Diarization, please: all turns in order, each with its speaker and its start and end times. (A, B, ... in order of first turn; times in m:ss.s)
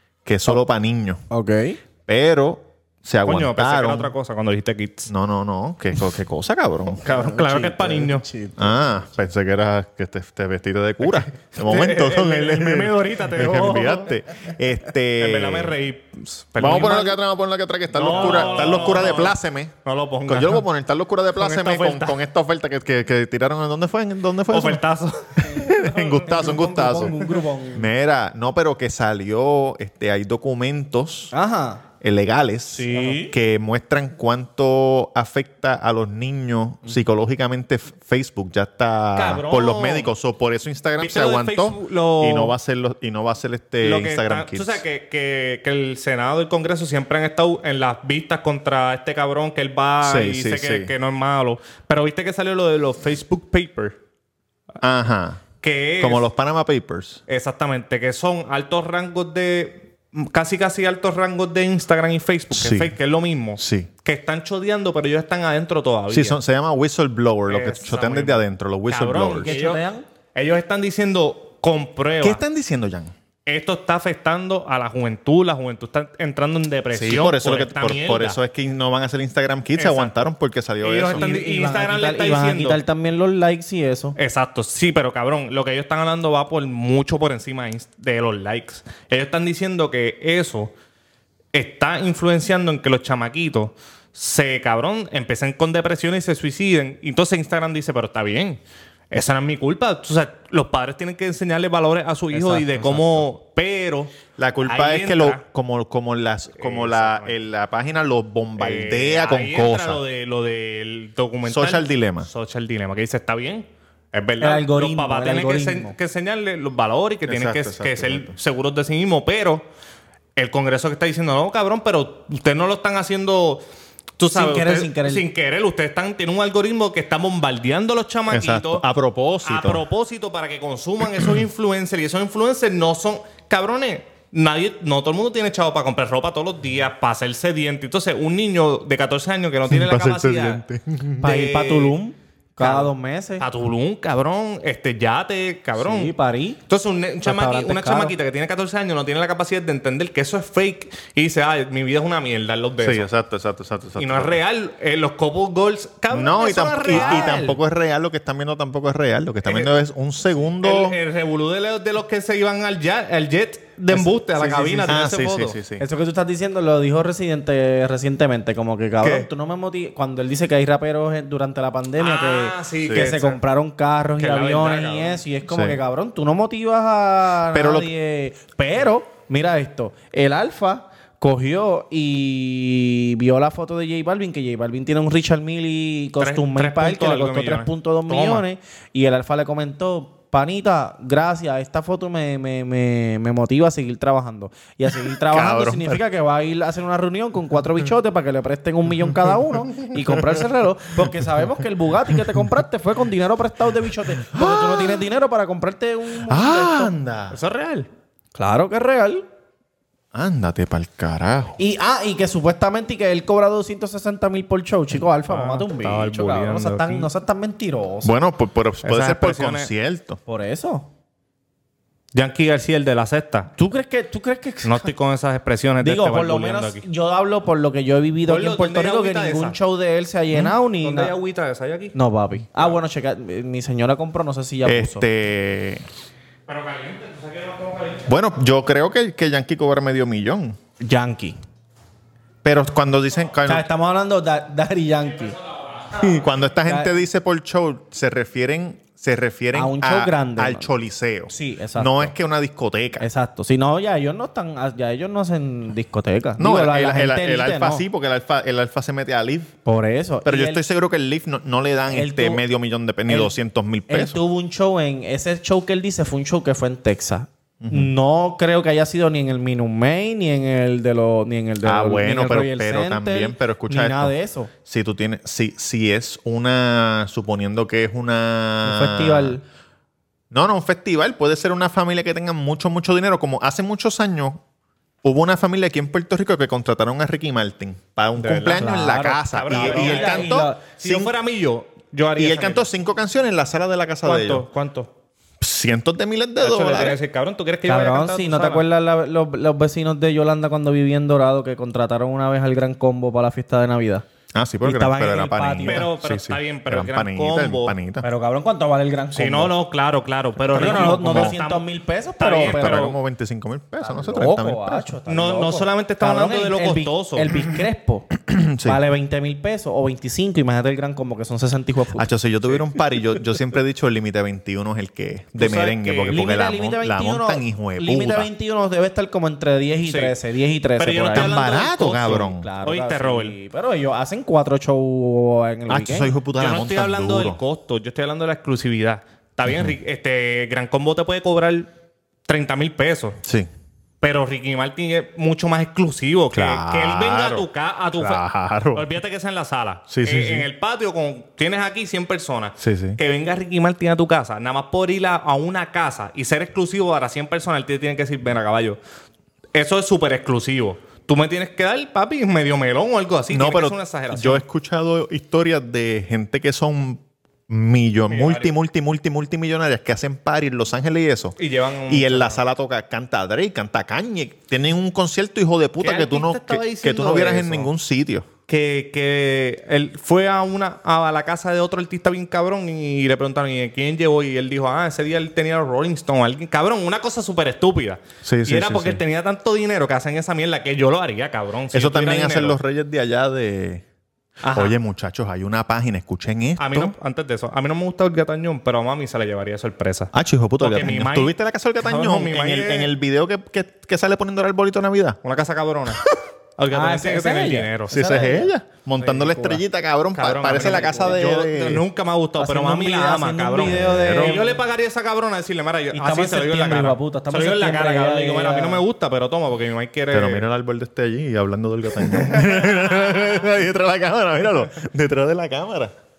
0:00.2-0:01.2 A
0:01.3-0:01.8 B
0:02.0-0:04.1 A
0:03.2-0:05.1 C
0:05.1-0:07.0 A
0:07.0-0:08.3 C
0:07.1-0:08.8 B
0:08.6-0:15.8 A
0:11.5-0:14.1 C
0:15.2-0:17.2 C
0:16.6-0:19.7 A
0:17.9-0:20.6 C
0:18.1-0:19.2 B
0:20.2-0:24.8 A
0:21.3-0:22.2 C
0:24.5-0:25.6 C
0:25.4-0:27.2 A
0:25.5-0:27.9 B
0:27.7-0:31.3 A
0:31.3-0:31.8 B
0:32.0-0:44.8 A
0:32.7-0:33.4 B
0:32.9-0:33.2 C
0:39.2-0:40.1 C
0:41.0-0:42.5 C
0:43.8-0:54.0 C
0:50.0-0:50.9 A
0:54.8-0:55.4 A
0:55.6-0:56.3 C
0:56.0-0:57.2 A
0:57.3-1:06.4 C
1:02.5-1:02.9 A
1:03.6-1:03.9 A
1:06.1-1:09.5 A
1:07.5-1:09.8 C
1:09.4-1:10.0 B
1:10.3-1:12.4 C
1:12.2-1:13.1 A
1:13.4-1:18.4 C
1:16.9-1:21.2 A
1:19.8-1:20.2 C
1:20.8-1:22.8 C
1:21.1-1:24.2 B
1:24.2-1:30.7 C
1:31.5-1:44.1 C
1:42.3-1:43.2 B
1:44.4-1:50.0 A
1:44.6-1:45.4 C
1:46.6-1:47.3 C
1:48.6-1:59.6 C
1:51.4-1:52.3 A
1:54.4-1:55.9 B
1:57.3-1:58.3 A
2:00.4-2:03.6 C
2:04.2-2:08.8 C
2:04.3-2:05.3 B
2:08.3-2:09.8 A
2:09.4-2:20.6 C
2:19.7-2:21.2 A
2:21.2-2:22.0 C
2:21.2-2:23.4 B
2:22.6-2:26.1 C
2:25.8-2:26.6 B
2:26.7-2:33.1 C
2:27.2-2:28.2 B
2:32.8-2:34.4 A
2:34.0-2:37.6 C
2:36.1-2:41.0 A
2:36.9-2:37.5 B
2:39.4-2:39.7 C
2:40.6-2:45.6 C
2:43.9-2:45.0 B
2:44.8-2:45.8 A
2:45.8-3:26.9 B
2:49.0-2:49.3 C
2:52.0-2:53.4 C
2:52.8-2:53.1 A
2:54.2-2:55.2 C
2:55.5-2:55.8 A
2:57.5-2:57.9 A
3:06.2-3:08.4 C
3:15.2-3:16.0 A
3:19.8-3:20.2 A
3:24.2-3:25.0 A
3:26.3-3:27.4 A
3:27.3-3:27.9 C
3:28.4-3:29.2 B
3:30.1-3:31.6 A
3:31.6-3:38.1 B
3:35.2-3:37.1 C
3:38.0-3:40.2 A
3:38.8-3:39.7 C
3:40.3-3:40.9 B
3:42.1-3:43.5 C
3:43.6-3:44.9 B
3:44.6-3:46.8 C
3:45.8-3:51.1 B
3:48.3-3:49.6 C
3:50.7-3:52.0 C
3:51.9-3:55.0 B
3:54.6-3:55.8 A
3:56.5-3:58.1 C
3:58.1-4:00.6 A
4:00.8-4:01.4 B
4:02.4-4:03.6 A
4:03.4-4:05.4 B
4:05.9-4:13.1 A
4:06.6-4:06.9 B
4:09.5-4:10.7 B
4:11.3-4:12.1 B
4:13.0-4:17.8 B
4:16.4-4:19.5 A
4:19.6-4:20.6 B
4:20.2-4:24.2 A
4:21.9-4:22.4 B
4:23.1-4:23.3 B
4:23.9-4:34.5 B
4:27.6-4:27.9 A
4:31.6-4:34.1 A
4:34.6-4:39.4 A
4:38.6-4:39.4 B
4:40.3-4:44.4 A
4:45.0-4:51.1 A
4:48.2-4:52.7 C
4:48.5-4:50.6 B
4:52.2-4:54.4 A
4:54.0-4:54.9 C
4:55.4-4:57.0 A
4:56.4-4:58.6 C
4:57.6-5:04.0 B
5:04.3-5:08.1 A
5:04.6-5:05.9 B
5:05.6-5:07.8 C
5:08.0-5:09.5 B
5:09.1-5:11.7 C
5:10.5-5:12.9 B
5:10.5-5:11.4 A
5:12.2-5:13.0 C
5:12.4-5:14.9 A
5:13.8-5:18.1 B
5:15.1-5:17.3 C
5:18.3-5:18.8 A
5:18.6-5:22.1 B
5:21.9-5:28.3 A
5:25.4-5:26.2 C
5:26.1-5:31.5 B
5:29.8-5:30.1 C
5:30.8-5:33.4 C
5:31.1-5:32.5 A
5:32.0-5:36.1 B
5:35.7-5:37.4 A
5:36.4-5:41.7 C
5:39.5-5:39.7 A
5:42.3-5:43.2 C
5:43.2-5:43.5 A
5:44.0-5:58.8 C
5:46.3-5:48.8 A
5:49.9-5:50.5 A
5:52.6-5:53.0 A
5:59.5-6:04.4 C
6:03.3-6:11.4 A
6:08.1-6:08.5 C
6:11.4-6:12.4 C
6:11.9-6:18.3 A
6:15.8-6:17.7 C
6:18.5-6:32.6 C
6:28.2-6:29.0 A
6:31.7-6:33.8 A
6:34.4-6:34.7 C
6:34.5-6:36.9 A
6:36.6-6:42.9 C
6:40.1-6:45.2 A
6:45.2-6:46.1 C
6:46.6-6:47.9 C
6:46.7-6:48.5 B
6:47.9-6:51.8 A
6:49.0-6:49.6 B
6:50.1-7:00.4 C
6:52.4-6:54.6 B
6:53.6-6:54.4 A
6:55.9-6:58.8 B
7:00.1-7:05.9 A
7:02.1-7:03.2 C